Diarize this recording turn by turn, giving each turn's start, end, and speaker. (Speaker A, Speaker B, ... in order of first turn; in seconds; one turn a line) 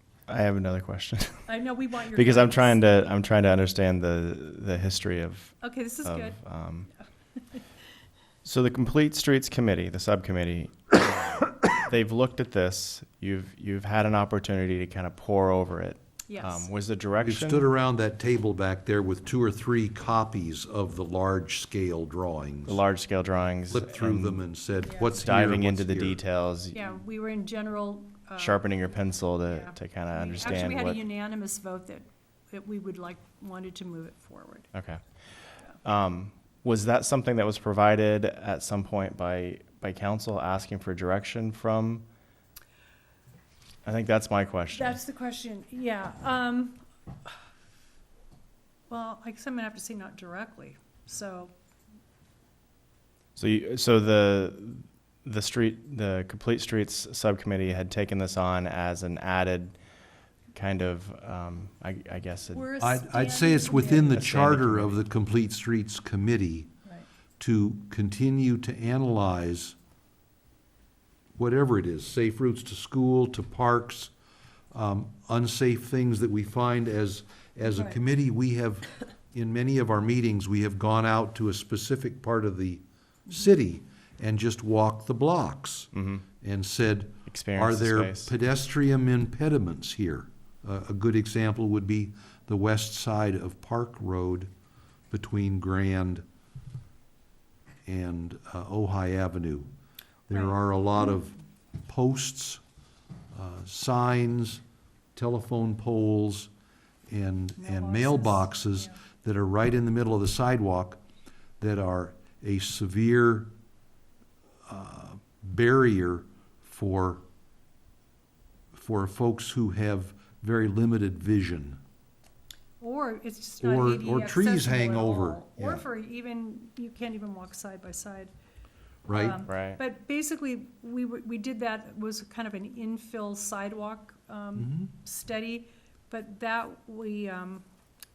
Speaker A: 0.3-1.5
Speaker B: 1.5-2.9
Speaker A: 2.1-6.9
Speaker B: 5.6-6.4
Speaker A: 8.4-17.6
Speaker B: 16.3-16.7
Speaker C: 17.2-22.8
Speaker A: 22.6-24.4
Speaker C: 23.7-26.2
Speaker B: 24.8-25.1
Speaker A: 25.1-26.9
Speaker B: 26.7-28.7
Speaker A: 28.4-31.0
Speaker B: 29.5-34.7
Speaker A: 34.7-35.0
Speaker A: 35.8-42.0
Speaker A: 43.8-45.0
Speaker B: 44.7-47.3
Speaker B: 48.9-51.5
Speaker A: 53.4-59.8
Speaker A: 60.5-62.7
Speaker B: 62.5-64.2
Speaker C: 62.8-66.7
Speaker A: 64.1-65.0
Speaker C: 67.4-69.8
Speaker C: 71.3-74.1
Speaker C: 74.7-85.9
Speaker B: 77.6-78.0
Speaker A: 85.9-86.2
Speaker C: 86.4-94.5
Speaker A: 87.3-88.3
Speaker C: 95.1-96.2
Speaker C: 97.8-99.7
Speaker C: 100.3-102.6
Speaker B: 100.3-100.6
Speaker C: 103.3-104.6
Speaker C: 105.1-106.5
Speaker C: 107.1-111.0
Speaker B: 107.6-109.0
Speaker C: 111.6-113.5
Speaker C: 114.7-117.2
Speaker C: 118.7-121.8
Speaker B: 122.8-128.3
Speaker C: 123.6-125.8
Speaker C: 129.1-129.4
Speaker B: 129.1-137.6
Speaker A: 129.5-129.8
Speaker C: 134.6-134.9